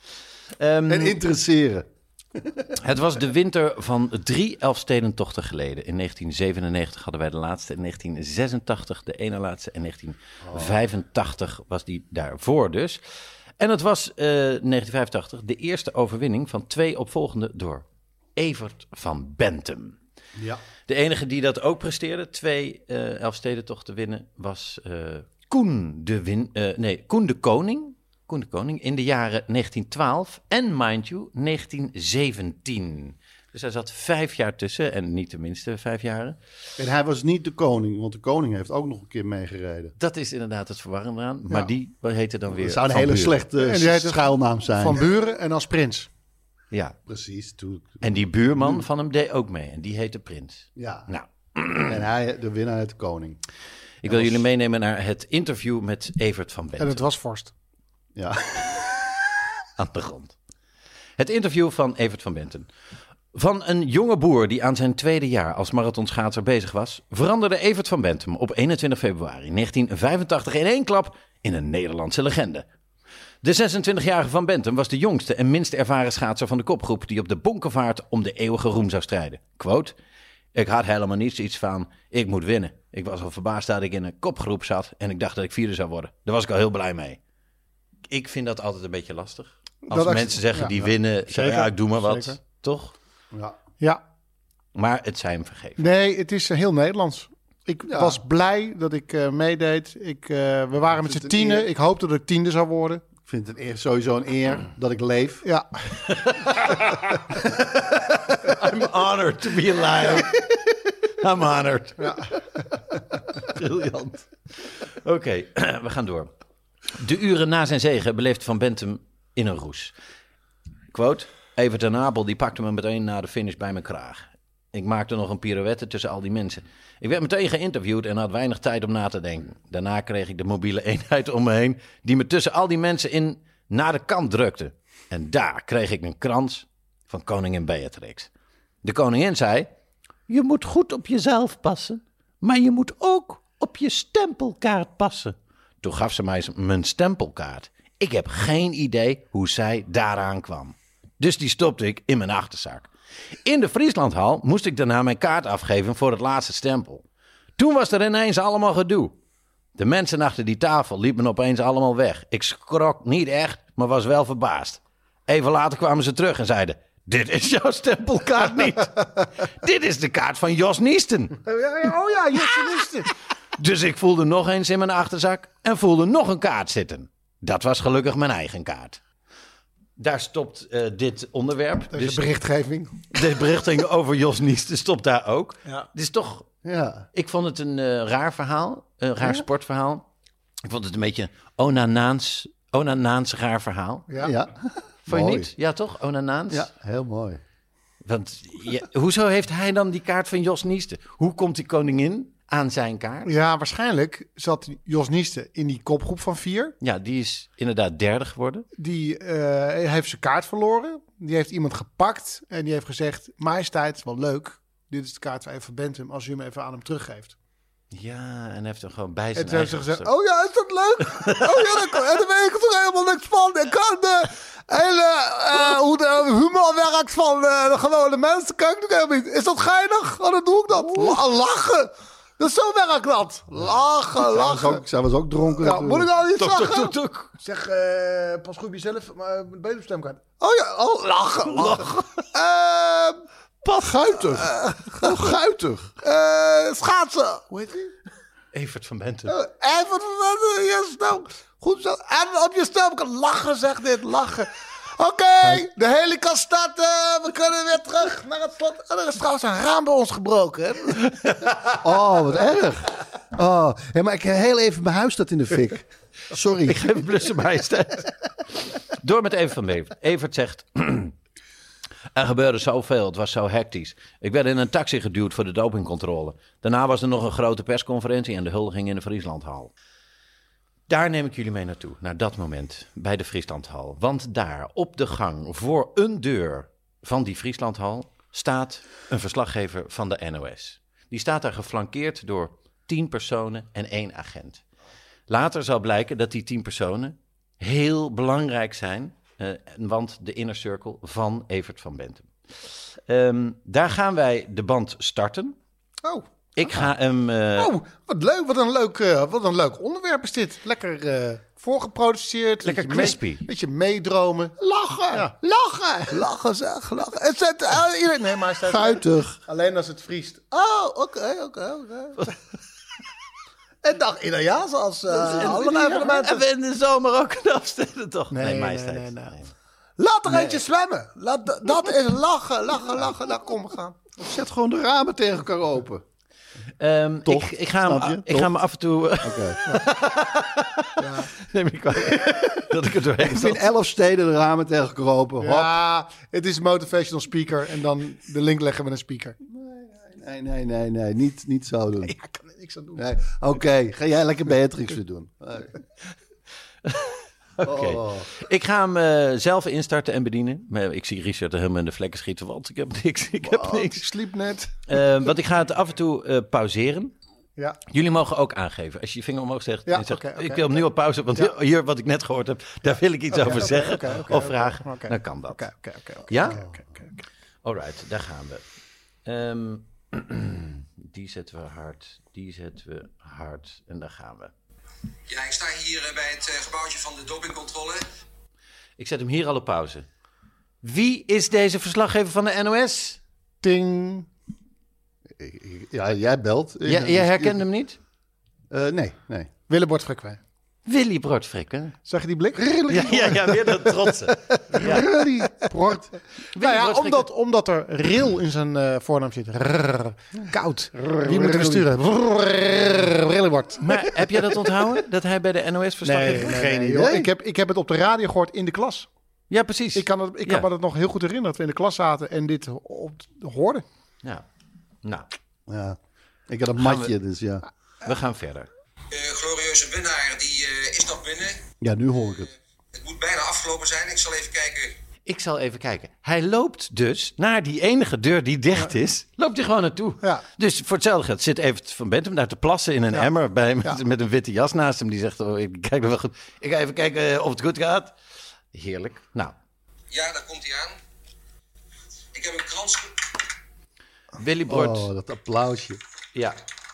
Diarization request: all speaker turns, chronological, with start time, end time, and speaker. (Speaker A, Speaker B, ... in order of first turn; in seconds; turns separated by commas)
Speaker A: 0.6-1.2, Speaker B: 0.9-2.7, Speaker A: 2.8-13.0, Speaker B: 10.4-10.8, Speaker A: 13.6-17.8, Speaker A: 18.4-20.0, Speaker B: 20.4-20.6, Speaker A: 20.9-36.4, Speaker B: 36.8-39.9, Speaker A: 40.0-43.3, Speaker B: 42.5-45.0, Speaker C: 43.6-46.1, Speaker A: 46.7-47.0, Speaker B: 47.0-48.9, Speaker A: 48.0-52.0, Speaker B: 50.8-51.1, Speaker B: 51.8-53.4, Speaker A: 54.0-57.0, Speaker B: 54.0-54.4, Speaker C: 56.8-57.5, Speaker B: 58.1-58.8, Speaker A: 59.8-60.3, Speaker A: 61.2-62.7, Speaker A: 63.3-72.7, Speaker A: 73.4-79.9, Speaker A: 80.5-87.2, Speaker A: 88.1-92.9, Speaker C: 89.9-92.4, Speaker B: 93.3-93.6, Speaker A: 94.7-95.8, Speaker C: 95.8-103.0, Speaker B: 97.9-98.2, Speaker B: 101.0-101.7, Speaker B: 103.2-105.4, Speaker A: 106.0-107.1, Speaker A: 107.8-112.2, Speaker C: 112.0-112.3, Speaker A: 113.3-116.3, Speaker A: 116.9-119.9, Speaker A: 120.9-138.3, Speaker A: 138.8-139.7, Speaker A: 140.3-152.9, Speaker A: 153.4-157.0, Speaker A: 157.6-159.1, Speaker A: 159.8-171.4, Speaker C: 171.4-173.1, Speaker A: 172.5-179.0, Speaker A: 180.0-182.3, Speaker C: 181.9-183.2, Speaker A: 183.1-186.5, Speaker B: 186.6-187.1, Speaker A: 187.1-190.0, Speaker A: 190.6-194.1, Speaker B: 194.2-195.5, Speaker A: 195.1-196.7, Speaker B: 196.5-197.4, Speaker A: 198.0-203.3, Speaker C: 203.2-206.7, Speaker A: 206.8-208.7, Speaker C: 208.8-217.3, Speaker A: 217.9-220.1, Speaker C: 219.3-234.8, Speaker A: 221.2-221.9, Speaker B: 234.2-236.1, Speaker C: 235.6-243.2, Speaker A: 236.3-237.3, Speaker A: 241.6-242.1, Speaker B: 243.8-244.4, Speaker C: 244.1-245.2, Speaker B: 245.0-246.0, Speaker C: 246.0-247.9, Speaker A: 248.5-249.3, Speaker C: 249.3-261.1, Speaker B: 261.7-267.0, Speaker A: 266.6-271.1, Speaker A: 272.1-279.7, Speaker A: 280.9-294.6, Speaker A: 295.3-302.3, Speaker A: 303.1-305.6, Speaker C: 306.0-306.9, Speaker A: 306.6-307.7, Speaker C: 307.6-322.3, Speaker A: 312.6-313.4, Speaker B: 314.8-315.3, Speaker B: 318.7-319.4, Speaker C: 323.8-326.4, Speaker B: 325.1-326.1, Speaker A: 325.2-329.5, Speaker C: 328.3-329.4, Speaker C: 330.0-334.0, Speaker B: 330.3-330.6, Speaker B: 334.2-336.0, Speaker A: 336.8-343.6, Speaker B: 337.2-338.5, Speaker B: 339.2-339.6, Speaker C: 341.0-341.3, Speaker B: 343.2-345.7, Speaker C: 345.4-349.4, Speaker B: 349.4-352.1, Speaker C: 352.0-353.0, Speaker B: 352.9-355.8, Speaker A: 356.8-364.1, Speaker B: 357.6-358.3, Speaker C: 363.4-365.0, Speaker A: 364.9-367.1, Speaker A: 367.9-375.6, Speaker C: 369.9-370.8, Speaker C: 373.3-377.1, Speaker A: 376.3-376.6, Speaker B: 376.4-376.8, Speaker A: 377.6-378.6, Speaker A: 379.2-384.5, Speaker D: 385.3-388.1, Speaker A: 389.0-390.1, Speaker A: 390.8-393.2, Speaker C: 393.6-394.3, Speaker B: 395.4-397.6, Speaker A: 396.8-398.0, Speaker B: 398.7-399.5, Speaker C: 399.7-400.4, Speaker A: 400.9-402.0, Speaker C: 402.1-403.5, Speaker B: 402.6-403.7, Speaker A: 402.9-405.2, Speaker C: 404.7-414.4, Speaker B: 405.6-406.0, Speaker A: 406.5-407.3, Speaker B: 410.9-411.9, Speaker A: 413.8-416.6, Speaker C: 416.0-419.1, Speaker B: 416.4-417.3, Speaker A: 419.5-420.7, Speaker C: 419.9-423.8, Speaker B: 425.7-426.0, Speaker B: 426.5-427.6, Speaker A: 426.8-427.1, Speaker A: 428.0-428.7, Speaker D: 429.1-431.6, Speaker B: 431.8-432.5, Speaker D: 432.9-434.9, Speaker A: 435.2-448.1, Speaker A: 448.7-449.5, Speaker D: 450.1-451.0, Speaker D: 452.3-453.3, Speaker A: 454.4-455.1, Speaker B: 454.7-456.0